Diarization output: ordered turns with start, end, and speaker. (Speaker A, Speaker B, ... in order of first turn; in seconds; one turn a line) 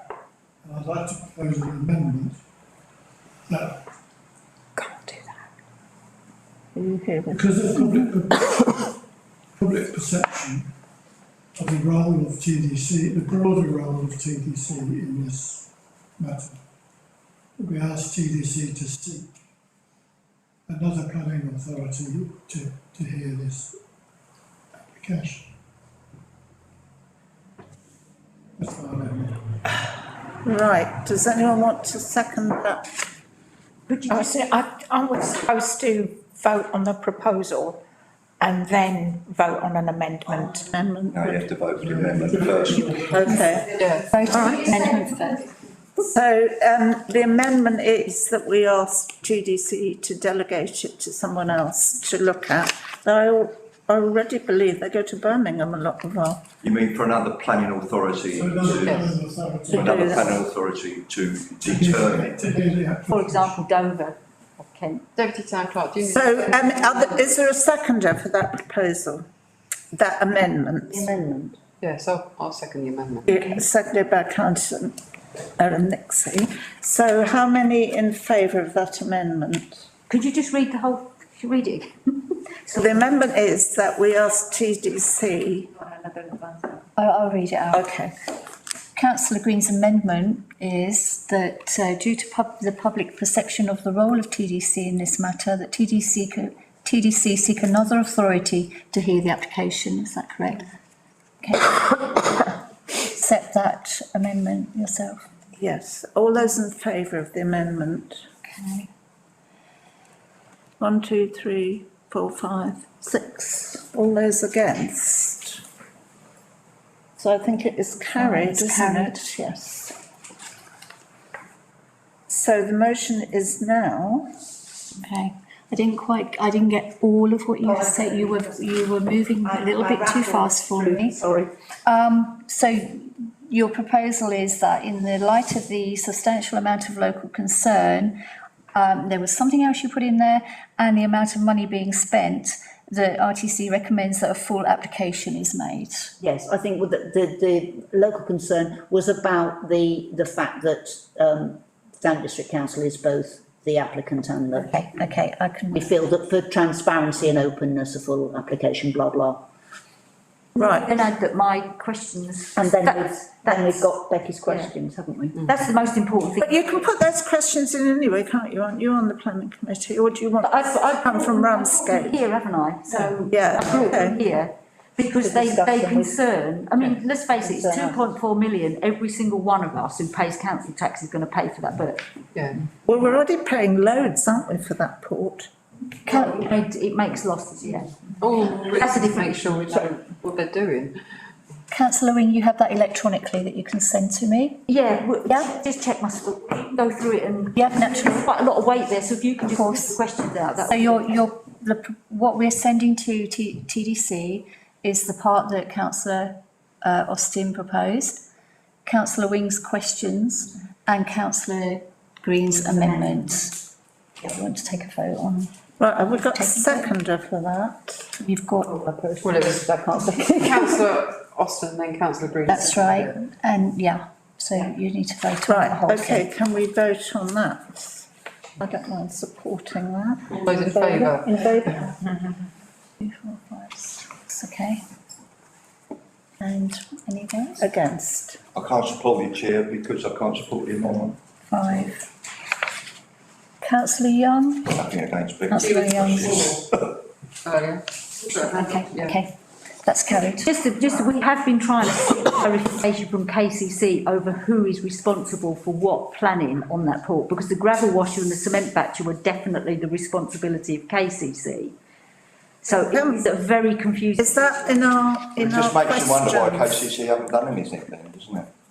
Speaker A: 0.6-2.4
Speaker A: 3.5-3.8
Speaker B: 4.8-5.4
Speaker C: 6.7-8.1
Speaker A: 7.3-8.6
Speaker A: 9.6-10.7
Speaker A: 11.5-16.6
Speaker A: 17.6-19.3
Speaker A: 20.7-23.8
Speaker A: 24.9-25.5
Speaker A: 28.6-29.4
Speaker C: 30.4-32.8
Speaker D: 33.9-34.5
Speaker B: 34.1-37.8
Speaker B: 38.4-40.6
Speaker C: 40.2-41.4
Speaker E: 41.1-42.9
Speaker A: 41.9-43.2
Speaker C: 42.9-43.8
Speaker F: 43.8-44.1
Speaker G: 44.1-45.4
Speaker C: 46.0-56.4
Speaker E: 56.6-59.1
Speaker A: 58.3-60.4
Speaker F: 58.8-59.1
Speaker E: 59.7-62.4
Speaker A: 61.6-63.6
Speaker D: 63.1-65.0
Speaker F: 65.2-67.2
Speaker C: 66.1-69.2
Speaker C: 69.9-71.1
Speaker H: 70.9-71.6
Speaker F: 71.8-73.5
Speaker C: 73.3-75.0
Speaker C: 75.6-79.8
Speaker D: 80.1-82.1
Speaker C: 82.7-85.7
Speaker G: 87.0-87.8
Speaker C: 87.7-88.1
Speaker G: 89.0-100.7
Speaker G: 101.4-102.5
Speaker G: 103.0-105.3
Speaker C: 105.5-108.2
Speaker G: 108.5-108.9
Speaker C: 110.8-115.6
Speaker C: 117.2-119.9
Speaker G: 118.2-119.2
Speaker C: 122.3-124.3
Speaker G: 125.0-131.2
Speaker G: 131.8-138.1
Speaker G: 138.7-146.1
Speaker H: 146.2-154.9
Speaker G: 154.5-155.9
Speaker H: 155.7-159.4
Speaker D: 160.5-163.9
Speaker C: 160.6-160.9
Speaker H: 162.6-165.4
Speaker D: 164.4-164.7
Speaker D: 165.4-166.9
Speaker C: 166.4-172.2
Speaker D: 170.4-182.0
Speaker C: 173.3-174.2
Speaker H: 175.2-176.1
Speaker H: 177.3-178.0
Speaker F: 182.3-182.6
Speaker C: 182.8-185.5
Speaker D: 186.1-189.3
Speaker F: 188.2-190.9
Speaker G: 191.7-194.6
Speaker D: 194.7-201.1
Speaker G: 195.3-195.5
Speaker G: 197.6-198.2
Speaker G: 199.5-200.0
Speaker G: 200.7-208.2
Speaker G: 208.8-213.5
Speaker G: 214.2-215.5
Speaker C: 215.8-218.1
Speaker G: 216.2-216.9
Speaker G: 218.2-218.8
Speaker H: 218.9-219.2
Speaker F: 219.2-223.1
Speaker C: 219.5-220.3
Speaker G: 222.5-226.3
Speaker C: 225.5-231.9
Speaker F: 230.4-231.9
Speaker G: 233.0-234.8
Speaker G: 236.4-237.7
Speaker C: 237.6-238.4
Speaker E: 238.5-241.1
Speaker G: 241.5-242.0
Speaker G: 243.6-244.8
Speaker E: 244.7-247.0
Speaker G: 245.5-246.4
Speaker F: 245.6-246.6
Speaker F: 247.4-249.2
Speaker G: 248.3-249.3
Speaker G: 249.8-250.5
Speaker D: 250.4-261.7
Speaker D: 262.6-264.9
Speaker C: 262.7-263.3
Speaker C: 264.2-266.8
Speaker E: 265.4-268.5